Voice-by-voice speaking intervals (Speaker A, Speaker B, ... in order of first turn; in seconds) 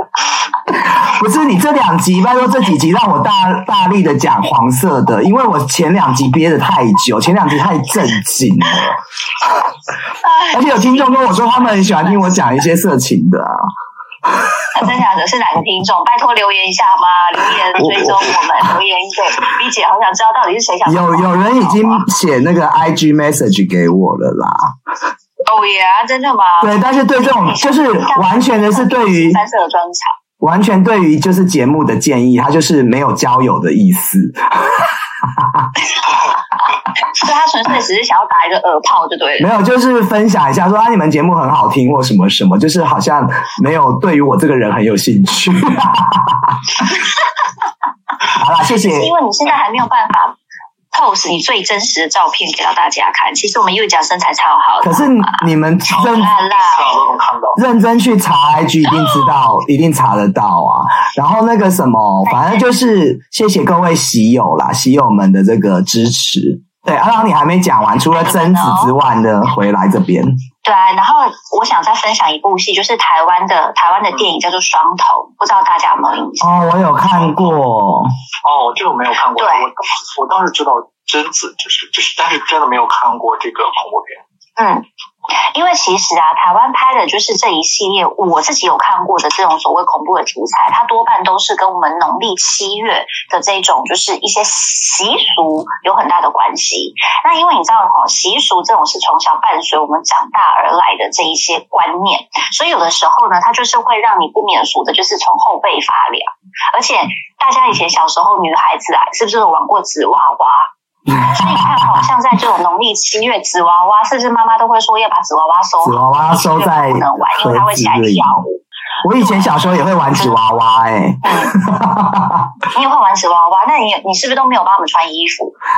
Speaker A: 0.7-9.0, 10.5-13.7, 17.7-18.7, 20.9-24.7, 26.6-29.4, 30.4-35.7, 39.4-46.8, 48.3-49.1, 54.8-56.3, 57.5-70.4, 76.4-78.1, 111.1-112.0, 115.8-118.4, 119.0-122.5
Speaker B: 10.2-12.4, 14.7-22.1, 25.4-30.1, 37.1-39.5, 48.8-50.4, 50.9-57.1, 62.2-62.6, 68.1-68.9, 70.6-76.5, 79.4-79.6, 84.6-110.7, 111.2-118.6, 119.2-119.5, 121.2-121.6, 122.7-125.5
Speaker C: 55.9-57.6, 77.1-77.5, 78.4-84.2